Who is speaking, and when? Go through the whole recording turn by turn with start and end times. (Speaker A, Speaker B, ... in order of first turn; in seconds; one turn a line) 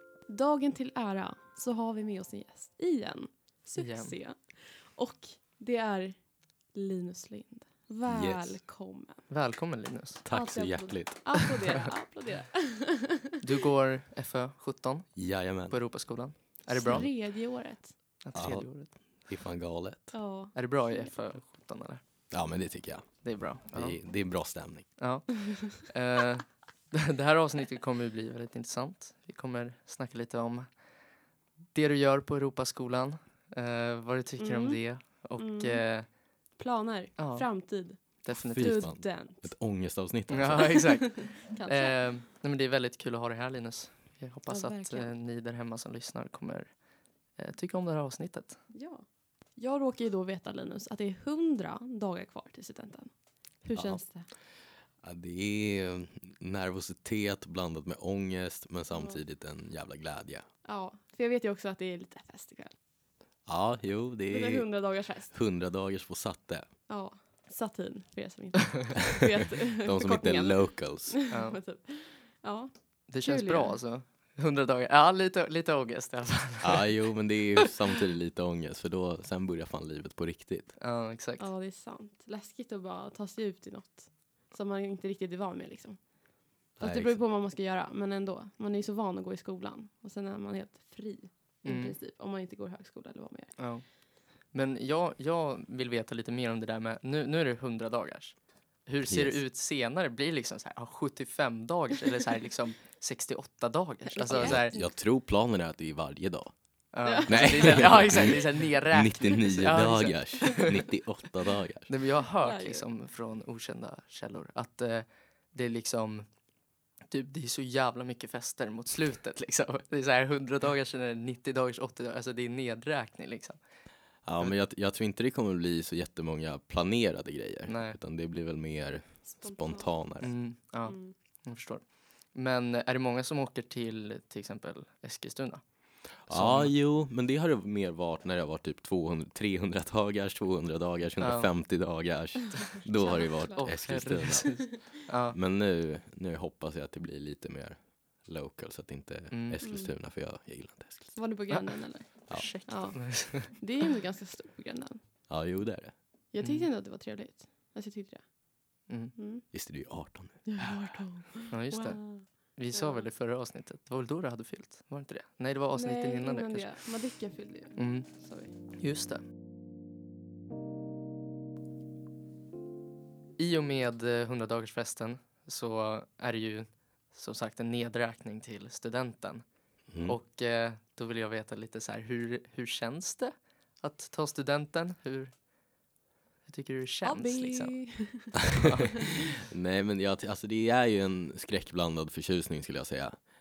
Speaker A: 0.3-6.2
Speaker B: 3.8-4.1
Speaker A: 6.7-9.2
Speaker C: 8.0-8.6
Speaker B: 9.3-10.2
Speaker C: 10.2-11.4
Speaker A: 10.3-13.4
Speaker B: 13.4-17.1
Speaker C: 15.1-15.8
Speaker A: 16.7-17.9
Speaker B: 18.2-18.9
Speaker C: 18.3-20.1
Speaker A: 20.1-21.1
Speaker B: 20.5-22.0
Speaker C: 22.3-25.0
Speaker B: 23.2-24.0
Speaker B: 25.0-30.8
Speaker B: 31.7-36.1
Speaker A: 34.4-35.8
Speaker A: 36.6-39.4
Speaker B: 37.2-37.5
Speaker B: 38.1-38.8
Speaker C: 38.5-41.0
Speaker B: 40.3-46.7
Speaker A: 40.8-42.1
Speaker A: 44.5-45.1
Speaker B: 47.4-48.6
Speaker A: 48.7-49.0
Speaker A: 49.6-53.1
Speaker A: 53.6-54.3
Speaker C: 53.8-54.0
Speaker C: 55.0-60.5
Speaker A: 58.9-59.2
Speaker A: 60.6-62.7
Speaker C: 63.5-64.7
Speaker A: 64.3-65.3
Speaker C: 65.3-66.7
Speaker A: 66.9-73.8
Speaker C: 69.1-71.2
Speaker B: 71.3-71.6
Speaker B: 73.1-77.0
Speaker C: 76.6-80.8
Speaker B: 80.8-81.5
Speaker A: 81.4-86.0
Speaker A: 86.8-93.6
Speaker C: 86.8-87.2
Speaker B: 91.6-92.0
Speaker B: 93.6-93.9
Speaker B: 94.5-104.8
Speaker C: 99.1-99.4
Speaker A: 104.2-104.9
Speaker C: 104.3-106.5
Speaker B: 106.9-110.8
Speaker A: 107.0-108.0
Speaker C: 107.3-111.9
Speaker B: 111.9-116.3
Speaker A: 112.4-112.9
Speaker B: 117.1-123.6
Speaker C: 124.2-130.3
Speaker B: 127.7-128.0
Speaker A: 129.3-129.9
Speaker B: 130.2-135.6
Speaker A: 130.8-131.1
Speaker C: 136.2-151.2
Speaker B: 136.3-136.7
Speaker B: 141.2-141.5
Speaker A: 142.8-144.8
Speaker B: 143.6-145.3
Speaker B: 149.3-149.6
Speaker A: 149.6-149.9
Speaker A: 151.2-155.0
Speaker B: 151.5-153.6
Speaker C: 155.3-155.9
Speaker A: 156.3-158.2
Speaker B: 156.4-156.7
Speaker A: 159.2-159.5
Speaker C: 159.5-161.0
Speaker A: 160.5-163.1
Speaker B: 161.5-166.8
Speaker A: 165.7-168.5
Speaker B: 167.8-169.2
Speaker B: 173.4-179.4
Speaker C: 179.9-180.2
Speaker B: 180.0-185.3
Speaker B: 186.5-187.9
Speaker A: 187.0-188.6
Speaker B: 188.5-188.9
Speaker C: 189.2-193.2